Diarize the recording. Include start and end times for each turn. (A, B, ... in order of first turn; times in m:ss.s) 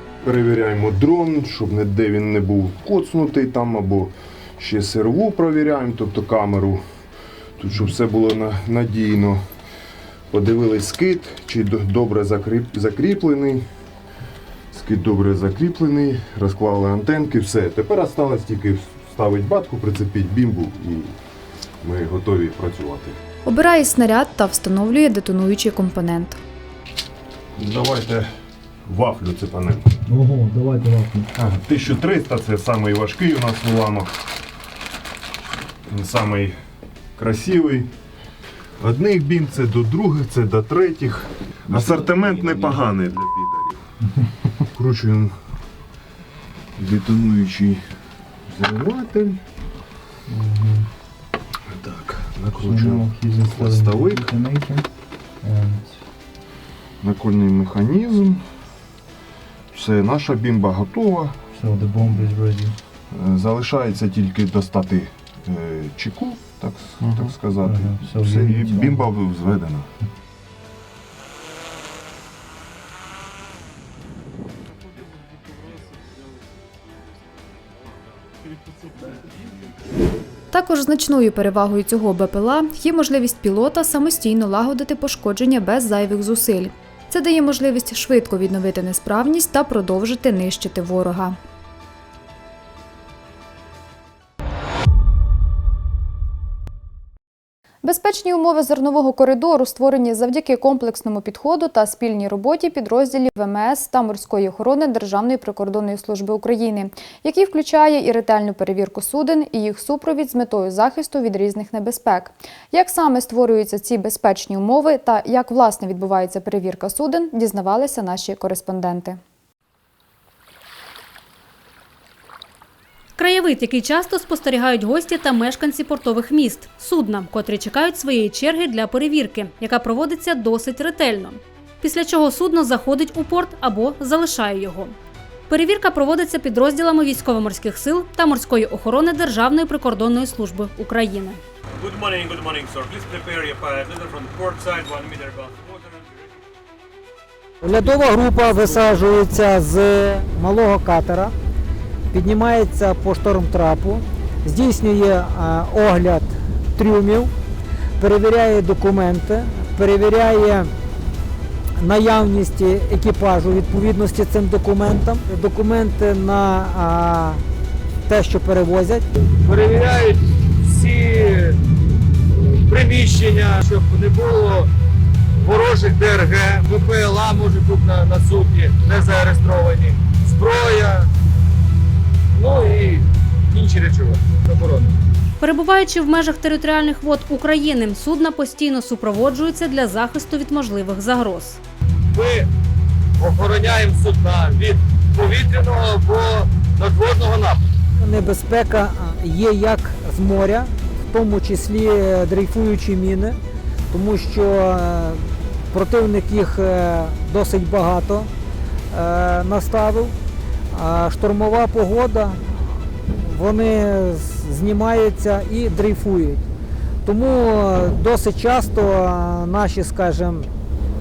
0:00.2-0:06.8 A
0:07.6-0:09.4 A
0:10.3-0:13.6 A
0:14.7-0:21.2 A
0:21.8-0:23.2 A
0:23.4-0:26.4 B
0:27.6-0:28.3 A
0:28.9-0:29.9 A
0:30.2-0:31.1 C
0:31.4-0:34.1 A
0:35.9-0:36.6 A
0:37.2-0:37.9 A
0:38.8-0:43.8 A
0:44.7-0:45.3 A
0:46.8-0:47.8 A
0:48.5-0:49.4 A
0:50.3-0:50.8 C
0:51.7-0:54.3 A
0:52.6-0:54.8 C
0:55.4-0:55.9 C
0:57.0-0:58.4 A
0:59.7-1:01.4 A
1:01.6-1:02.7 C
1:03.1-1:09.9 A
1:07.7-1:09.0 C
1:20.5-1:31.4 B
1:37.8-1:59.2 B
2:03.2-2:14.9 D
2:15.5-2:21.4 D
2:21.8-2:25.5 E
2:27.6-2:31.3 F
2:32.1-2:37.3 F
2:38.0-2:40.7 F
2:41.8-2:47.4 F
2:48.1-2:49.0 F
2:49.4-2:51.6 G
2:52.4-2:54.7 G
2:55.4-3:01.1 G
3:02.3-3:04.9 G
3:05.4-3:11.6 D
3:12.1-3:12.5 G
3:13.2-3:17.6 G
3:18.0-3:23.4 F
3:23.9-3:28.3 F
3:28.9-3:30.1 F
3:30.7-3:32.4 F
3:33.1-3:36.4 F
3:37.0-3:40.5 F